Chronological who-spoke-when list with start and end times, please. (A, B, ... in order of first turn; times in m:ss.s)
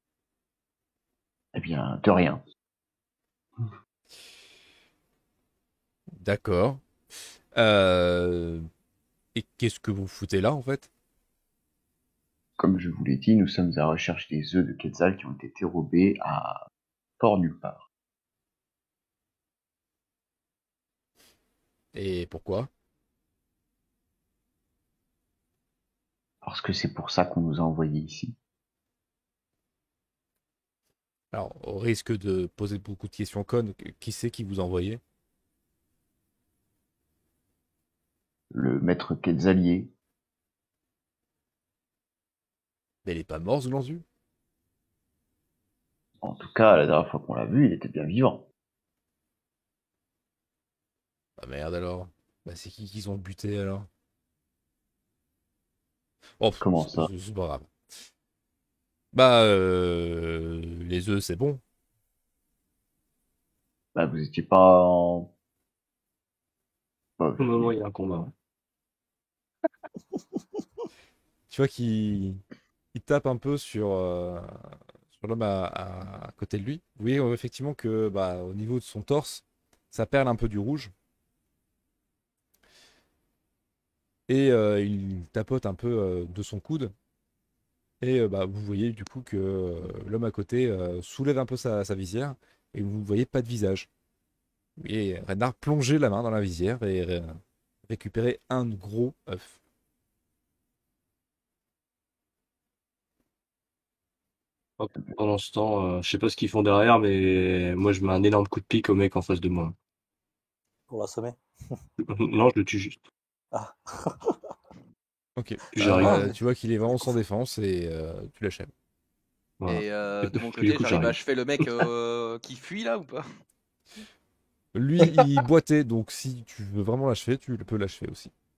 0:01.5-0:02.4 A
0:06.1-0:06.8 B
0:07.5-0:08.7 B
0:09.4-0:10.9 B
0:12.6-0:16.6 A
0:17.2-0:17.9 A
0:21.9-0:22.7 B
0:26.4-0:28.4 A
0:31.3-0:35.0 B
0:38.5-0:39.9 A
0:43.0-0:44.0 B
0:46.2-0:48.4 A
0:51.4-0:53.9 B
0:56.4-0:57.7 B
0:56.6-0:57.1 A
0:59.1-1:01.6 B
1:04.0-1:05.3 A
1:07.2-1:07.8 A
1:07.4-1:08.3 C
1:11.5-1:12.4 B
1:12.9-1:14.5 B
1:15.2-1:20.9 B
1:24.3-1:26.9 B
1:28.0-1:33.9 B
1:34.8-1:37.4 B
1:37.9-1:39.6 B
1:44.8-1:49.8 C
1:50.9-1:51.4 D
1:52.0-1:53.0 C
1:53.5-1:54.4 D
1:55.4-1:58.7 B
1:55.7-1:56.3 C
1:55.8-1:56.3 D
1:59.6-2:01.2 C
1:59.7-2:03.2 E
2:04.7-2:08.3 B